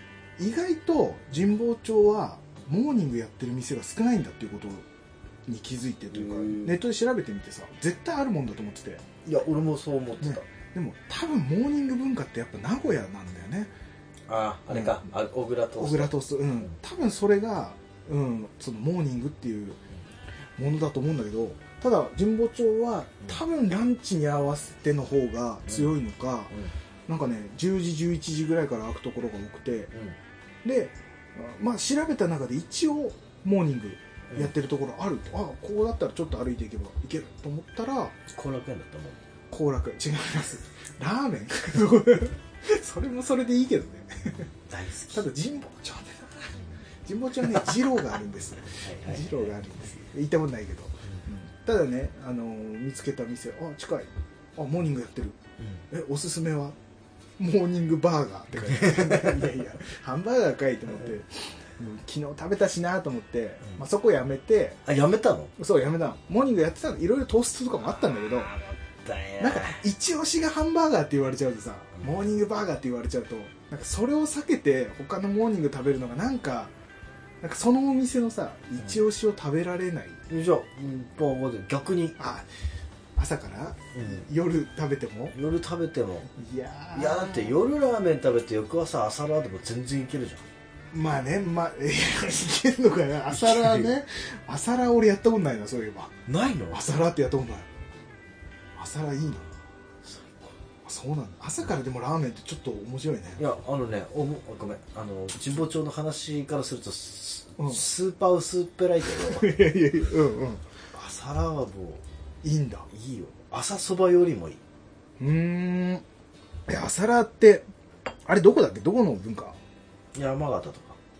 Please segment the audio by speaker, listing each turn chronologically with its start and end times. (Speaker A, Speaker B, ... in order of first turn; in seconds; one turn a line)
Speaker A: 0.4-4.8
Speaker A: 5.5-9.1
Speaker B: 6.1-6.8
Speaker B: 9.2-10.5
Speaker A: 10.2-13.7
Speaker B: 14.3-16.1
Speaker A: 14.7-15.0
Speaker A: 15.8-19.8
Speaker A: 20.6-26.5
Speaker A: 27.1-29.9
Speaker A: 30.6-38.1
Speaker B: 38.3-39.2
Speaker A: 39.5-44.5
Speaker B: 44.7-45.3
Speaker A: 45.1-55.4
Speaker B: 48.7-50.0
Speaker A: 55.9-56.8
Speaker A: 57.4-64.8
Speaker B: 58.6-59.4
Speaker B: 64.8-65.5
Speaker A: 65.6-68.5
Speaker B: 68.1-69.8
Speaker A: 69.4-76.7
Speaker A: 77.4-80.2
Speaker B: 80.3-82.2
Speaker A: 82.2-82.5
Speaker A: 83.2-85.3
Speaker B: 83.9-84.3
Speaker B: 85.3-86.3
Speaker A: 86.3-87.5
Speaker B: 86.9-90.5
Speaker A: 90.9-96.1
Speaker B: 93.3-93.9
Speaker B: 96.2-96.8
Speaker A: 96.7-97.7
Speaker A: 98.8-99.5
Speaker B: 100.0-100.5
Speaker A: 100.8-103.4
Speaker B: 103.4-109.5
Speaker A: 109.1-110.6
Speaker B: 110.9-112.0
Speaker A: 112.4-112.9
Speaker B: 112.9-114.6
Speaker A: 115.2-116.0
Speaker A: 116.7-117.6
Speaker A: 118.2-119.6
Speaker B: 120.1-121.0